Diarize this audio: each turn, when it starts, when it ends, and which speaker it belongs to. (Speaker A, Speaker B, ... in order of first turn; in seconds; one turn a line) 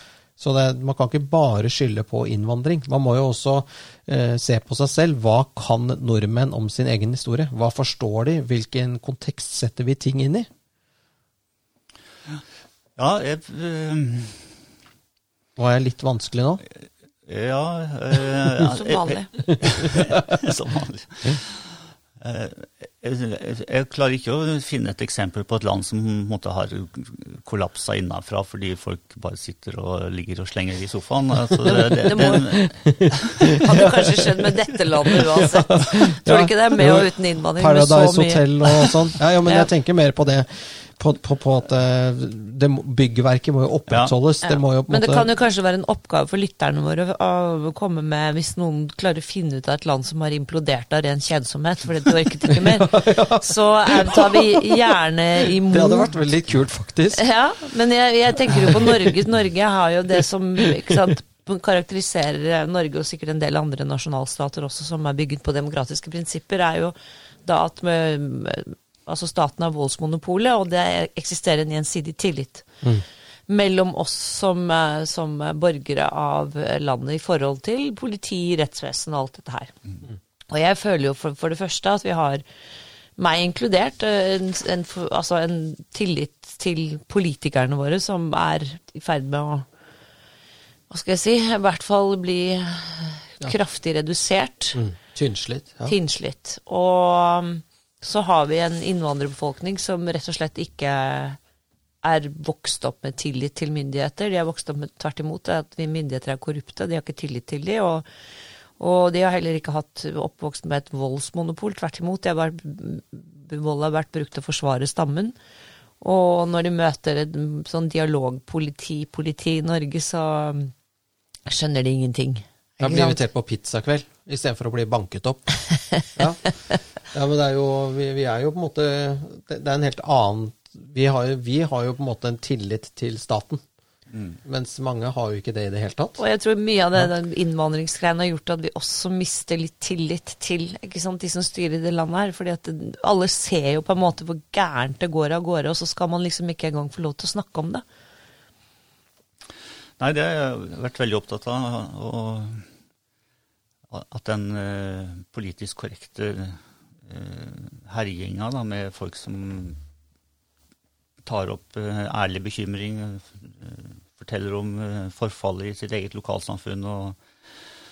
Speaker A: 0.4-10.5
Speaker B: 13.0-14.5
Speaker A: 15.6-16.6
Speaker B: 17.2-33.6
Speaker C: 18.6-19.3
Speaker A: 19.7-20.2
Speaker A: 31.6-34.2
Speaker C: 32.0-32.6
Speaker C: 33.6-38.9
Speaker A: 35.0-45.3
Speaker B: 43.9-44.1
Speaker C: 44.4-56.1
Speaker A: 52.5-54.9
Speaker A: 55.7-57.2
Speaker C: 57.1-72.7
Speaker A: 58.5-59.1
Speaker C: 73.5-79.7
Speaker C: 80.5-82.4
Speaker C: 83.2-89.7
Speaker C: 90.9-94.8
Speaker A: 94.7-95.9
Speaker C: 95.8-101.4
Speaker C: 102.0-108.0
Speaker C: 108.8-115.3
Speaker C: 116.0-120.7
Speaker C: 121.5-123.2
Speaker A: 122.8-125.5
Speaker A: 126.1-126.5
Speaker A: 127.1-133.6
Speaker B: 134.1-134.4
Speaker A: 134.4-136.2
Speaker C: 136.2-147.8
Speaker B: 150.0-152.7
Speaker B: 153.9-159.8
Speaker B: 161.2-167.2